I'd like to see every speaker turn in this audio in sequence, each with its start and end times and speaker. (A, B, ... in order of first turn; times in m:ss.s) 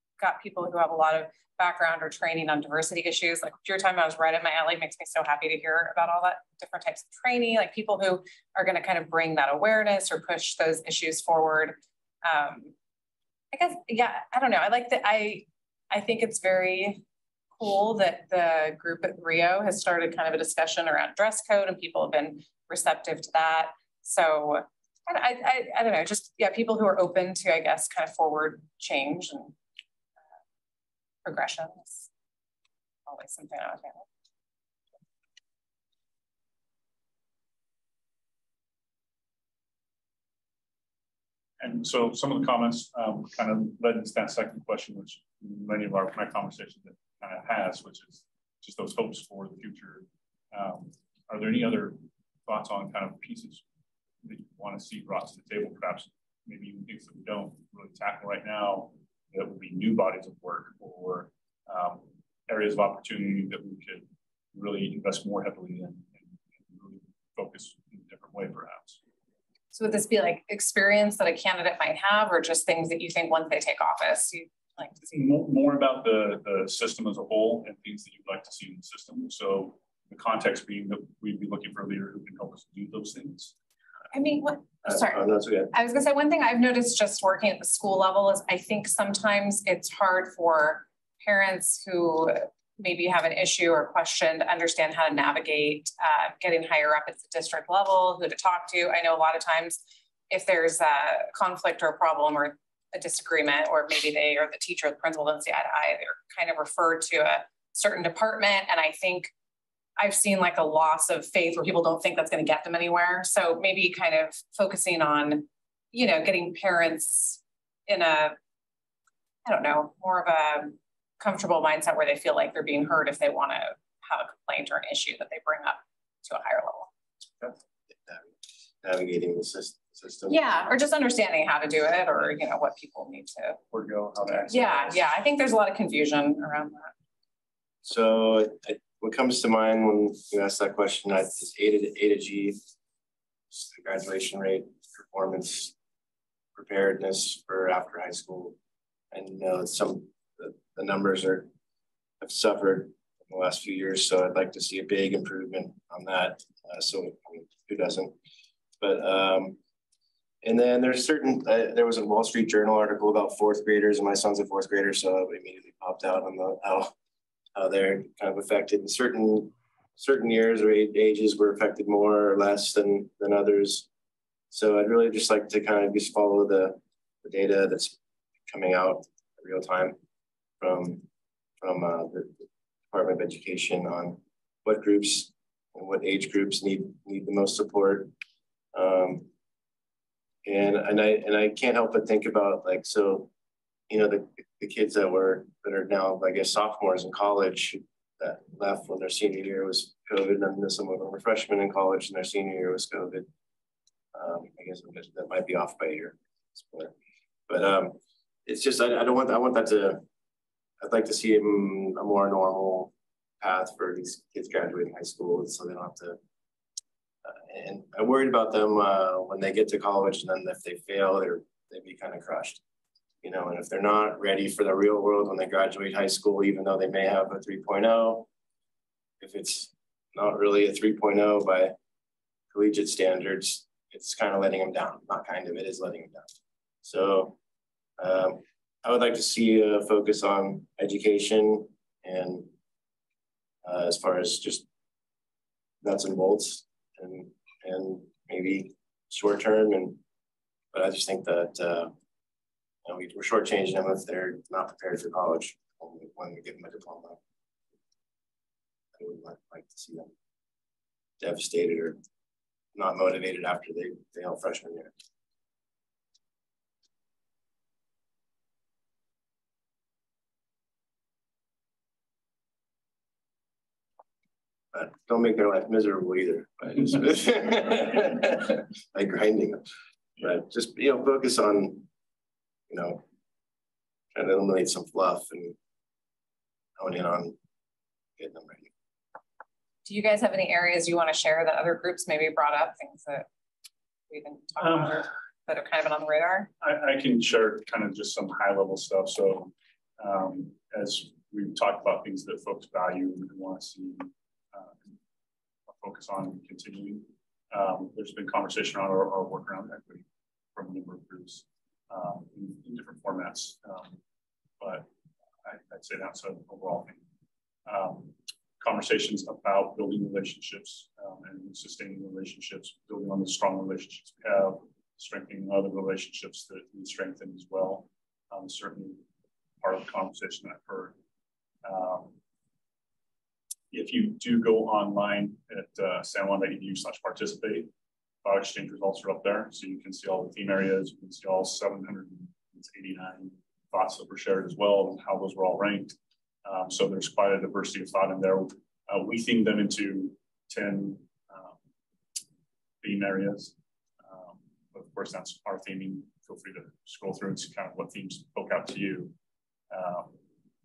0:00.2-0:12.7 A
0:13.5-0:17.0 A
0:17.6-0:29.5 A
0:31.2-0:32.1 A
0:33.1-0:34.0 A
0:41.6-0:53.6 B
0:54.2-1:09.0 B
1:09.7-1:15.0 A
1:15.1-1:23.5 B
1:24.1-1:25.2 A
1:24.8-1:25.7 C
1:25.7-1:49.3 A
1:50.0-1:58.4 A
1:59.4-2:06.9 A
2:07.4-2:08.3 C
2:08.8-2:10.4 C
2:10.3-2:13.6 A
2:13.7-2:15.0 B
2:14.4-2:16.9 A
2:17.8-2:22.6 C
2:23.5-2:25.7 C
2:26.5-2:28.6 C
2:29.1-2:31.5 C
2:32.2-2:38.2 C
2:38.8-2:39.6 C
2:40.4-2:46.9 C
2:47.5-2:53.9 C
2:54.5-2:58.0 C
2:58.5-3:00.0 C
3:00.6-3:01.0 C
3:01.6-3:08.1 C
3:08.7-3:09.3 C
3:10.4-3:13.3 C
3:13.9-3:23.3 C
3:24.1-3:26.9 C
3:27.5-3:30.0 C
3:30.8-3:36.2 C
3:37.2-3:42.6 C
3:43.2-3:48.3 C
3:49.2-3:51.7 C
3:52.5-3:57.4 C
3:58.0-4:02.5 C
4:03.6-4:04.6 C
4:05.8-4:10.0 C
4:10.7-4:11.9 C
4:12.8-4:17.2 C
4:18.9-4:20.1 C
4:21.2-4:22.0 C
4:22.7-4:24.9 C
4:34.7-4:39.6 C
4:40.2-4:41.9 C
4:42.7-4:43.0 C
4:44.1-4:45.6 C
4:46.8-4:47.4 C
4:48.2-4:48.7 C
4:49.8-4:53.3 A
4:54.1-4:56.5 A
4:54.6-4:55.0 B
4:56.6-5:04.9 B
5:05.7-5:14.0 B
5:14.6-5:14.9 B
5:15.4-5:17.0 B
5:17.6-5:29.0 B
5:29.6-5:31.0 B
5:31.6-5:32.2 B
5:33.7-5:37.7 B
5:38.2-5:51.5 B
5:52.8-5:59.1 B
5:59.7-6:00.2 B